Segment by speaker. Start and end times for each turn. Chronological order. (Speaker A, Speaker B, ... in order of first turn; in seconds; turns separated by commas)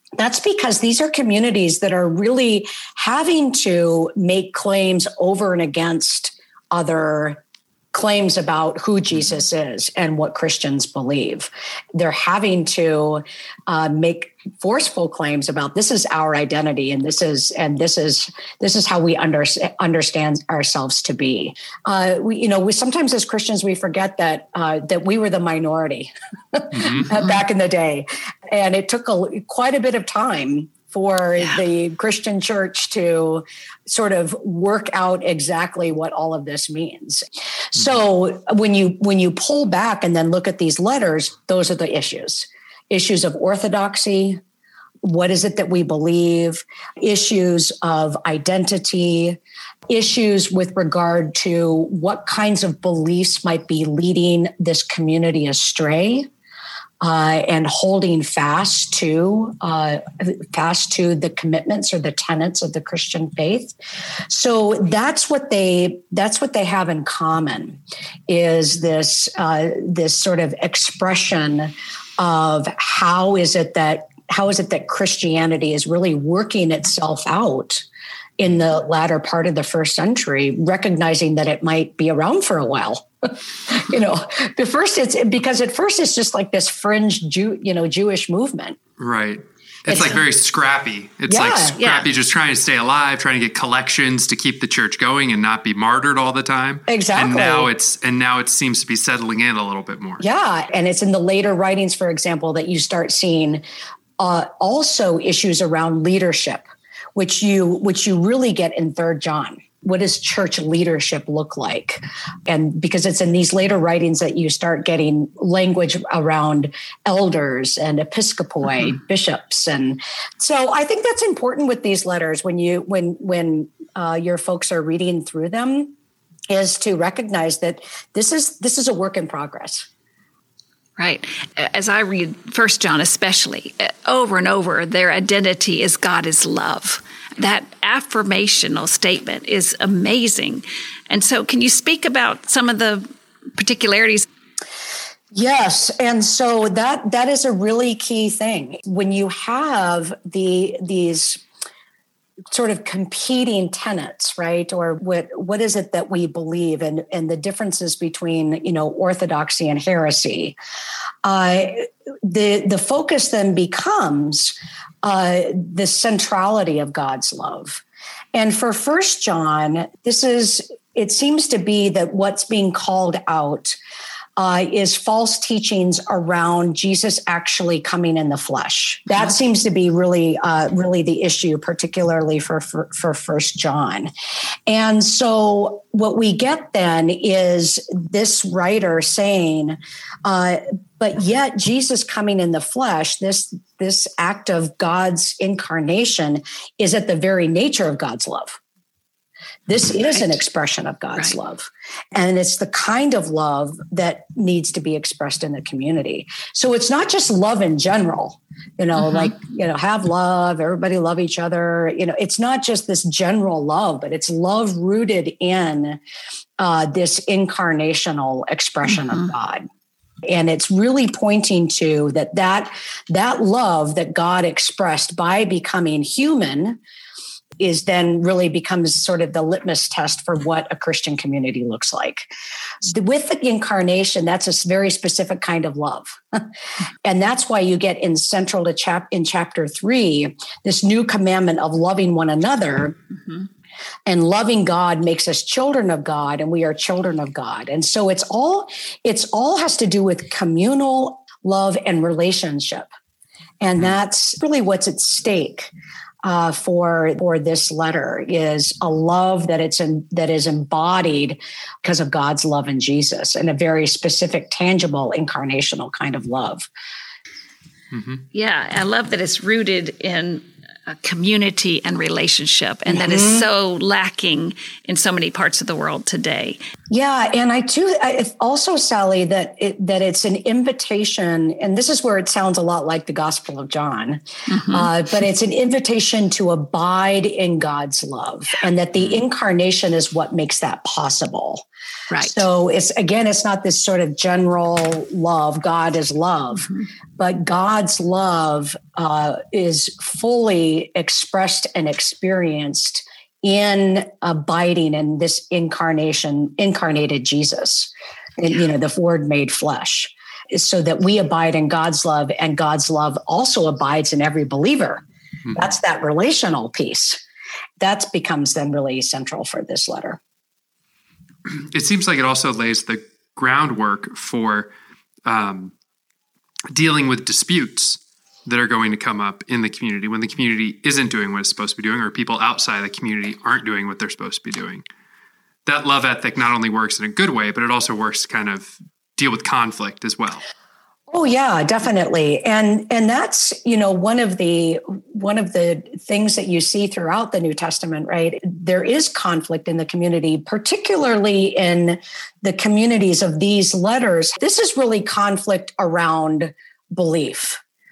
Speaker A: 0.2-7.4, Speaker A: 7.9-44.4, Speaker B: 26.7-27.1, Speaker A: 45.0-56.3, Speaker A: 57.0-63.7, Speaker A: 64.3-77.8, Speaker A: 78.4-88.8, Speaker B: 89.0-100.2, Speaker A: 89.9-90.2, Speaker A: 91.3-91.8, Speaker C: 91.8-92.0, Speaker A: 96.9-97.7, Speaker A: 100.2-103.6, Speaker A: 104.2-125.9, Speaker A: 126.5-129.9, Speaker C: 131.0-144.2, Speaker A: 145.3-151.4, Speaker A: 152.5-160.6, Speaker A: 161.2-167.8, Speaker A: 168.3-173.8, Speaker A: 174.4-184.1, Speaker A: 184.7-198.6, Speaker A: 199.7-216.0, Speaker A: 216.6-219.7, Speaker A: 220.2-226.8, Speaker A: 227.6-232.3, Speaker A: 232.8-236.4, Speaker A: 237.0-242.9, Speaker A: 244.1-252.9, Speaker A: 253.6-255.7, Speaker A: 256.2-266.7, Speaker B: 267.9-268.2, Speaker C: 268.3-276.6, Speaker A: 272.9-273.4, Speaker A: 276.9-291.6, Speaker C: 284.5-284.9, Speaker C: 292.1-292.4, Speaker A: 292.2-317.2, Speaker A: 317.8-320.2, Speaker B: 321.4-324.7, Speaker B: 325.2-325.7, Speaker B: 326.7-334.8, Speaker B: 335.6-340.4, Speaker A: 341.1-357.6